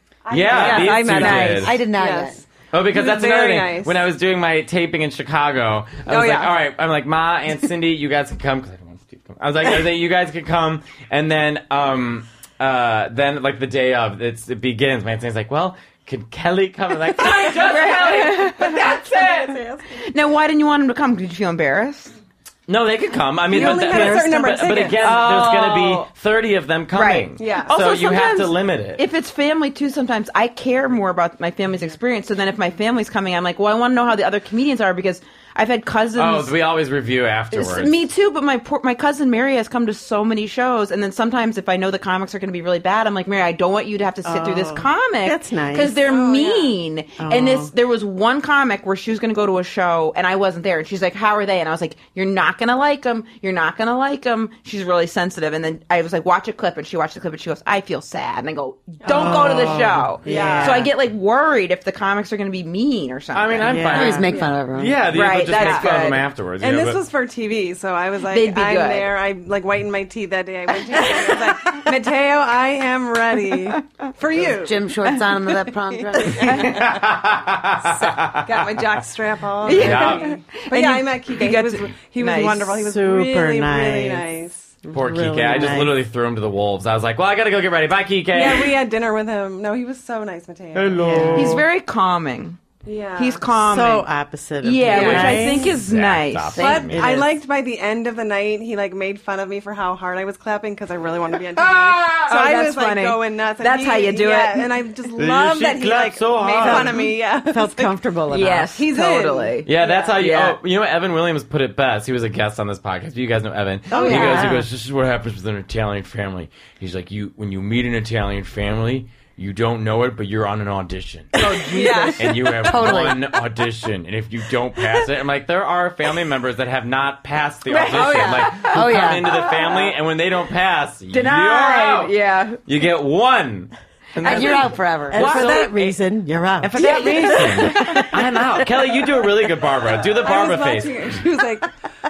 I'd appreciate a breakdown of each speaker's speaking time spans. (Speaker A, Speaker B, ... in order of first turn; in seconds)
Speaker A: 0.2-4.0, 6.0-6.5, 23.5-25.2, 27.4-27.7, 46.0-46.8, 59.0-60.9, 64.3-64.5, 65.5-66.0, 66.6-76.7, 78.4-84.7, 88.3-91.2, 92.8-93.5, 96.5-110.2, 121.4-122.6, 127.8-128.6, 140.2-141.7
Speaker B: 0.3-1.8, 2.7-19.6, 22.7-29.0, 36.1-38.1, 63.3-67.0, 76.3-79.0, 79.7-80.3, 84.9-88.8, 90.7-91.7, 94.9-97.2, 101.5-102.3, 105.2-107.0, 109.6-132.1, 132.6-134.7, 136.6-141.2
Speaker C: 0.5-1.7, 17.2-22.1, 24.9-26.1, 26.9-36.5, 37.5-63.9, 65.1-66.2, 68.3-69.1, 71.0-71.9, 76.2-76.8, 79.6-82.8, 91.3-92.6, 93.2-94.1, 94.6-96.8, 102.2-104.7, 108.3-110.6, 113.9-114.5, 121.4-122.3, 127.7-129.9, 131.1-132.6, 134.2-134.6, 135.1-136.0, 136.8-138.1
Speaker D: 1.6-2.4, 63.9-65.0, 74.4-76.6, 122.5-123.3, 128.7-129.3, 134.2-135.6
Speaker E: 23.8-24.2, 44.2-46.0, 47.2-47.7, 59.1-60.9, 63.6-64.2, 82.8-84.3, 84.8-86.0, 91.0-91.6, 93.5-95.8, 96.9-97.3, 106.6-108.7, 113.9-114.7, 135.1-138.7